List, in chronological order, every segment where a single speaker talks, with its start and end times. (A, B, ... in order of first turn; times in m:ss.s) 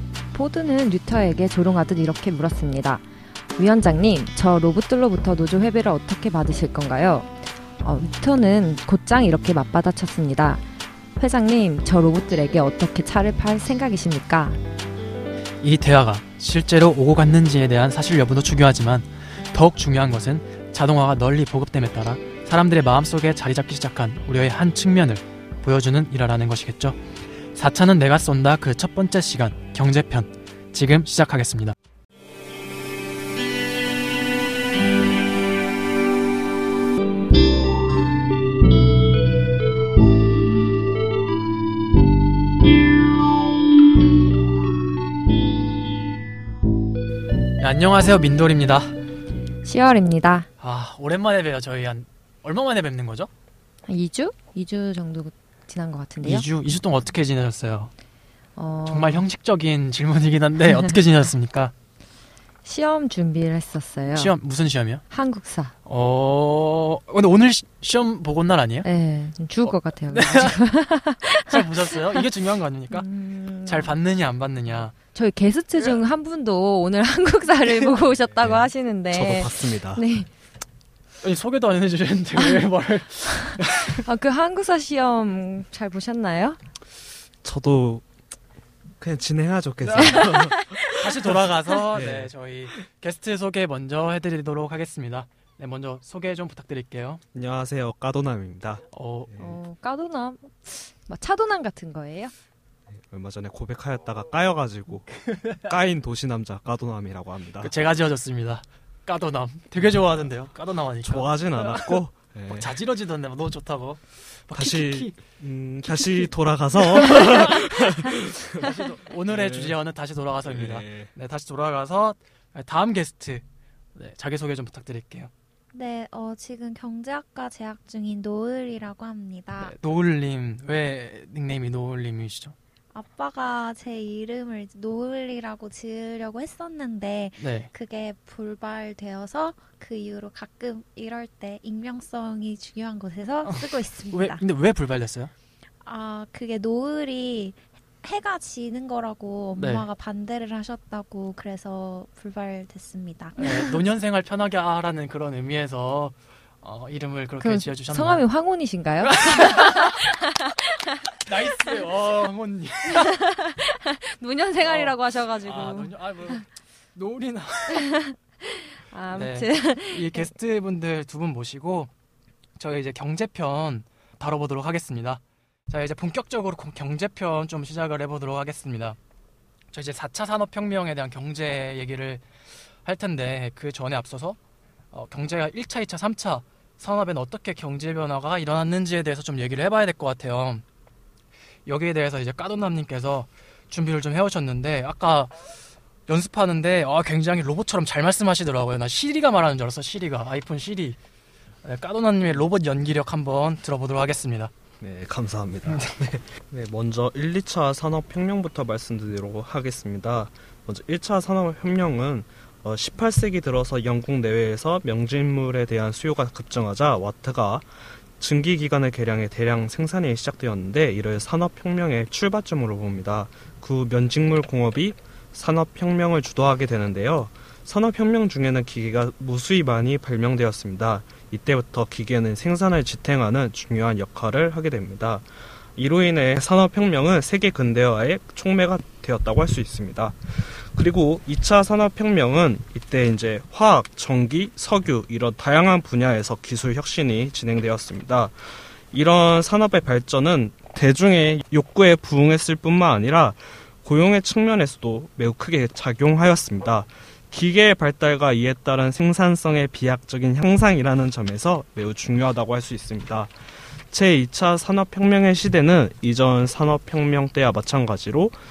0:00.3-0:03.0 A
0:03.6-0:10.6 A
0:11.2-0:14.6 A
0:15.6-0:27.0 B
0:27.5-0:31.8 B
0:47.6-0:49.0 B
0:49.6-0:50.5 A
0:50.6-0:53.3 B
0:53.9-0:56.4 A
0:56.2-0:57.9 B
0:58.6-0:59.2 A
0:58.9-1:01.7 B
1:02.6-1:04.3 A
1:04.1-1:05.0 B
1:05.1-1:05.7 A
1:05.9-1:08.9 B
1:08.8-1:12.2 A
1:09.6-1:10.6 B
1:11.4-1:13.1 B
1:12.9-1:13.9 A
1:13.7-1:14.9 B
1:15.1-1:20.3 A
1:18.4-1:20.0 C
1:21.2-1:24.0 B
1:23.4-1:26.6 A
1:27.4-1:28.0 C
1:29.0-1:31.0 C
1:29.8-1:30.2 B
1:30.1-1:30.8 A
1:30.9-1:37.2 B
1:31.9-1:32.3 C
1:37.3-1:39.5 C
1:38.9-1:39.3 B
1:39.4-1:42.3 A
1:43.1-1:47.7 C
1:45.3-1:45.6 B
1:47.6-1:52.0 B
1:51.0-1:52.8 C
1:52.5-1:55.2 B
1:54.5-1:59.8 C
1:55.8-1:56.3 B
1:57.0-2:03.4 B
2:00.4-2:01.1 C
2:04.0-2:05.3 B
2:05.7-2:09.8 D
2:09.6-2:12.6 B
2:12.9-2:24.4 D
2:17.4-2:17.7 B
2:23.4-2:25.3 B
2:25.8-2:33.4 D
2:29.6-2:29.9 B
2:33.4-2:38.2 B
2:37.4-2:40.9 A
2:39.0-2:40.0 B
2:41.2-2:43.2 B
2:43.0-2:46.4 A
2:44.6-2:47.9 B
2:47.7-2:50.3 A
2:49.1-2:51.9 B
2:52.6-2:59.0 B
2:59.7-3:02.2 B
3:02.8-3:04.4 B
3:04.9-3:10.6 B
3:11.7-3:15.4 B
3:16.1-3:21.0 B
3:21.6-3:24.5 B
3:24.8-3:37.7 C
3:25.7-3:26.0 B
3:38.2-3:55.2 C
3:55.8-4:23.3 C
4:23.9-4:28.4 C